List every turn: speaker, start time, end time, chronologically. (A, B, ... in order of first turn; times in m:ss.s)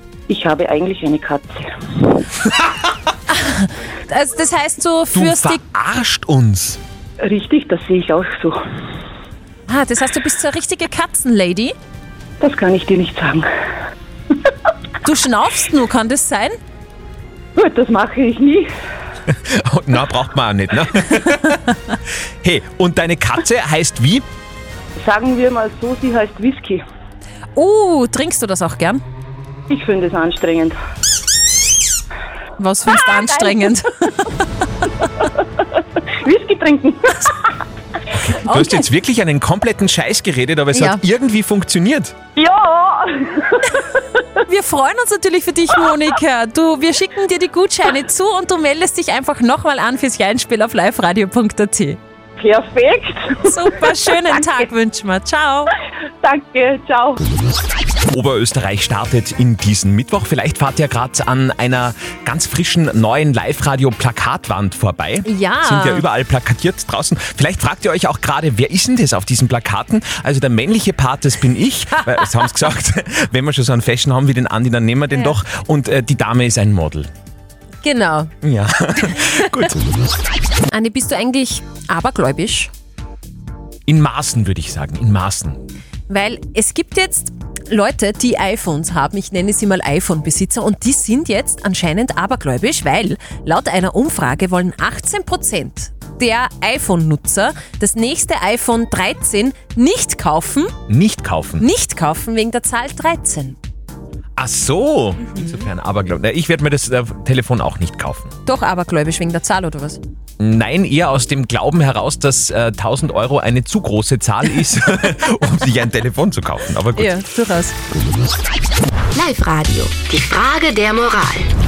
0:00.3-0:02.2 A
0:03.3-0:05.6 B
0:05.1-0:06.8 C
0:07.2-0:08.6 A
0:09.7-0:11.7 B
0:12.4-0:13.5 A
0:15.0-0:16.6 B
0:17.6-0:18.7 A
0:19.3-0:21.6 C
0:22.4-0:24.2 C
0:25.0-0:26.8 A
0:27.6-0:29.0 B
0:29.7-0:30.8 A
0:32.6-0:34.4 B
0:36.1-0:37.4 A
0:38.2-0:42.1 C
0:38.3-0:38.8 B
0:40.7-0:41.0 B
0:42.4-0:43.8 A
0:44.5-0:52.0 B
0:52.4-0:53.6 A
0:53.4-0:55.7 B
0:56.2-0:57.2 A
0:58.1-1:17.1 C
1:05.2-1:06.1 B
1:17.8-1:18.3 B
1:18.4-1:19.8 C
1:20.7-1:22.7 B
1:23.9-1:25.6 C
1:26.1-1:40.7 B
1:40.9-1:41.6 C
1:41.6-1:43.6 B
1:44.4-1:48.3 C
1:48.4-1:50.0 B
1:50.4-1:57.2 C
1:57.0-1:57.7 B
1:59.1-2:01.5 D